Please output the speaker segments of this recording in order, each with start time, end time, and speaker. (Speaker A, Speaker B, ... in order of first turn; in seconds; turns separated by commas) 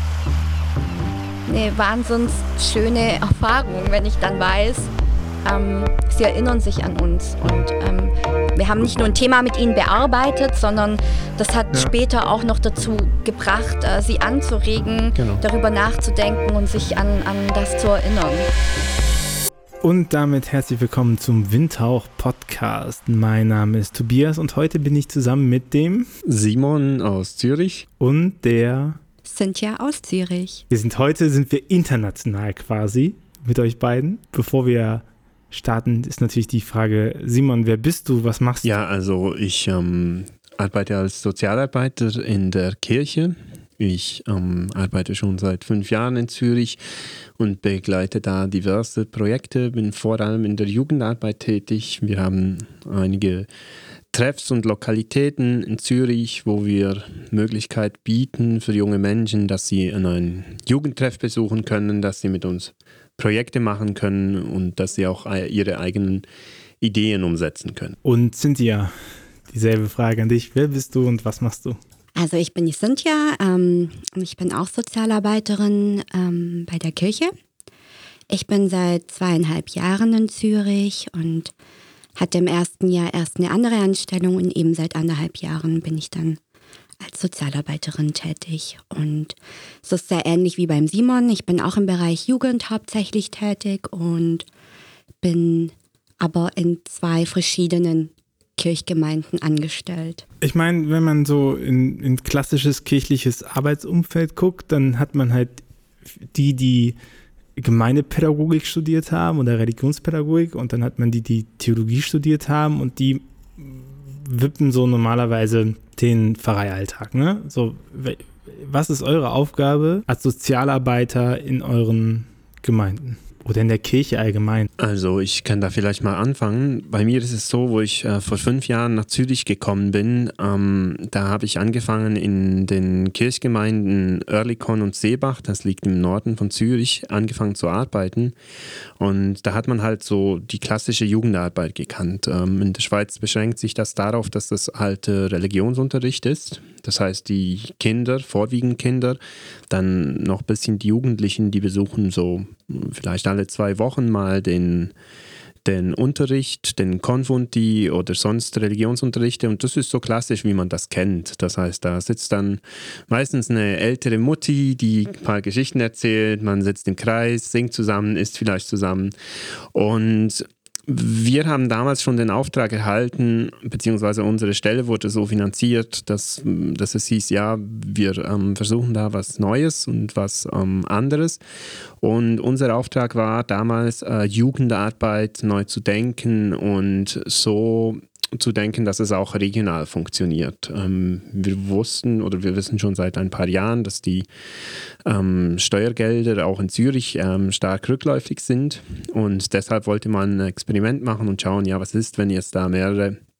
Speaker A: 1.5-4.9, Speaker A: 5.4-18.5, Speaker B: 15.2-15.4, Speaker C: 19.8-26.1, Speaker B: 26.2-27.9, Speaker C: 28.0-29.0, Speaker A: 29.2-30.6, Speaker C: 30.7-38.7, Speaker B: 38.6-46.8, Speaker B: 47.4-53.5, Speaker B: 54.1-66.2, Speaker B: 66.8-68.0, Speaker C: 68.0-68.9, Speaker C: 69.5-71.8, Speaker A: 72.2-77.3, Speaker A: 78.3-81.5, Speaker A: 82.2-86.4, Speaker A: 87.0-94.5, Speaker A: 95.2-100.2, Speaker C: 100.4-105.6, Speaker C: 106.3-107.0, Speaker C: 107.6-124.7, Speaker B: 124.8-138.3, Speaker B: 139.0-149.2, Speaker B: 149.7-154.9, Speaker B: 155.6-169.1, Speaker B: 169.7-181.4, Speaker B: 182.0-194.2, Speaker B: 195.0-203.2